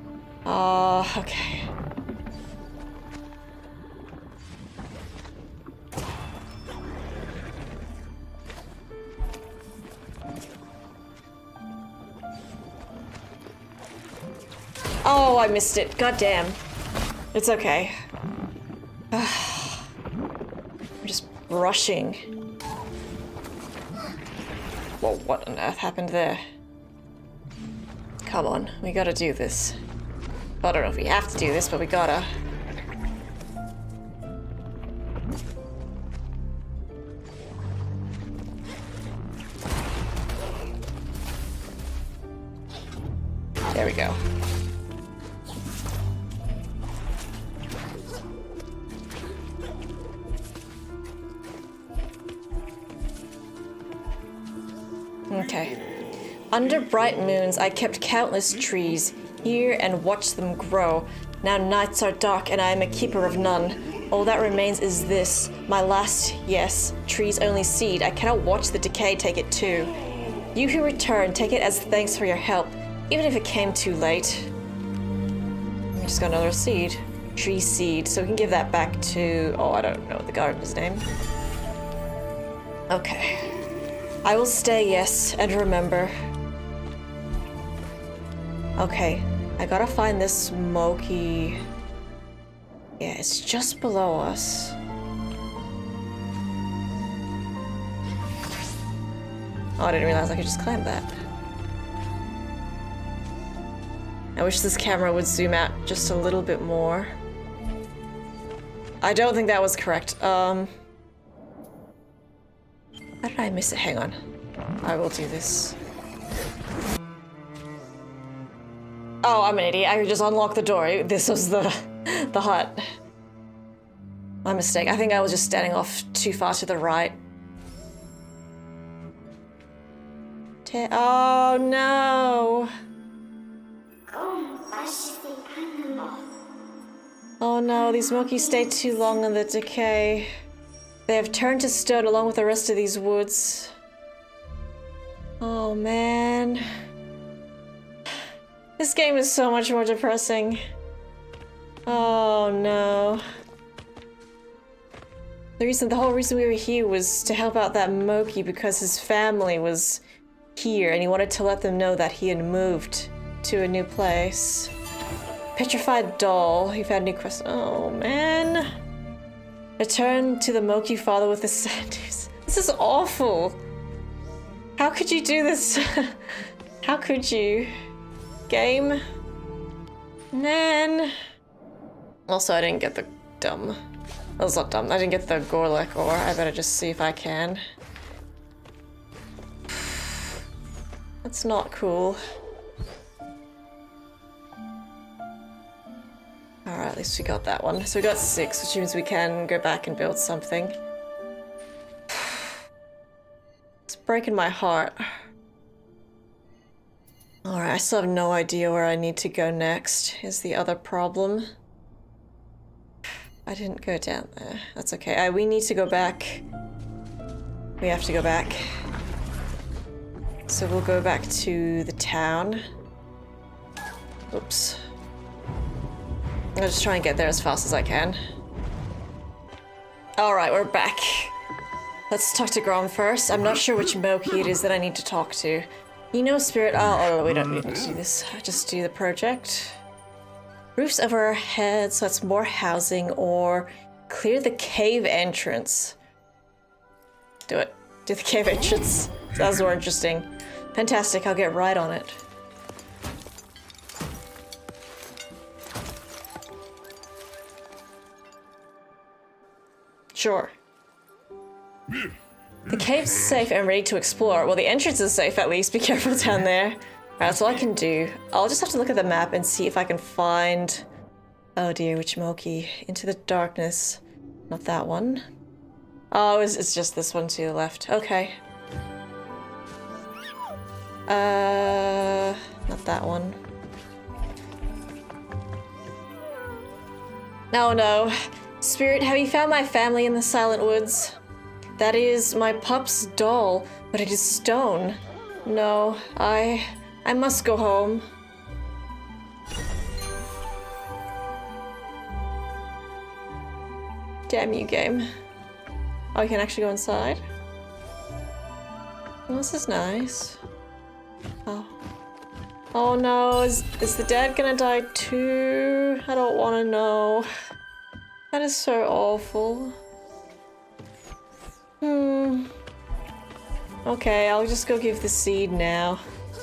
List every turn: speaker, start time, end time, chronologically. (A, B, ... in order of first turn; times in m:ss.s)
0:00.4-0:01.7 A
0:15.0-0:16.6 A
0:17.3-0:17.9 A
0:19.1-0:19.9 A
0:21.0-0:22.3 A
0:25.0-0:26.4 A
0:28.2-0:29.8 A
0:30.6-0:32.3 A
0:43.7-0:44.2 A
0:55.3-0:55.8 A
0:56.5-1:09.9 A
1:10.6-1:14.5 A
1:16.0-1:21.1 A
1:22.9-1:23.5 A
1:24.2-1:26.1 A
1:28.8-1:31.6 A
1:33.0-1:34.8 A
1:39.8-1:41.2 A
1:44.4-1:47.1 A
1:49.0-1:50.7 A
1:53.2-1:54.2 A
1:54.8-1:55.8 A
1:59.2-2:02.8 A
2:04.4-2:07.2 A
2:10.6-2:12.7 A
2:17.4-2:20.3 A
2:21.1-2:23.8 A
2:25.4-2:26.6 A
2:28.8-2:30.6 A
2:31.9-2:33.2 A
2:35.6-2:40.0 A
2:40.6-2:44.7 A
2:45.6-2:48.7 A
2:49.8-2:53.6 A
2:54.8-2:57.7 A
2:58.5-2:59.0 A
3:00.3-3:01.2 A
3:02.3-3:03.8 A
3:04.4-3:07.6 A
3:11.2-3:12.2 A
3:16.7-3:20.8 A
3:22.1-3:22.5 A
3:23.9-3:25.1 A
3:27.5-3:31.5 A
3:33.5-3:36.4 A
3:37.8-3:38.6 A
3:40.5-3:42.6 A
3:44.3-3:44.8 A
3:46.6-3:48.2 A
3:50.2-3:51.4 A
3:52.1-3:59.8 A
4:00.8-4:06.0 A
4:07.5-4:12.2 A
4:20.2-4:20.5 A
4:22.7-4:30.9 A
4:31.6-4:35.2 A
4:36.1-4:38.4 A
4:41.1-4:43.4 A
4:47.5-4:51.2 A
4:51.8-4:58.0 A
5:04.3-5:05.1 A
5:06.2-5:07.2 A
5:09.3-5:10.4 A
5:11.5-5:11.8 A
5:12.7-5:17.3 A
5:18.3-5:19.8 A
5:21.8-5:22.5 A
5:23.9-5:26.0 A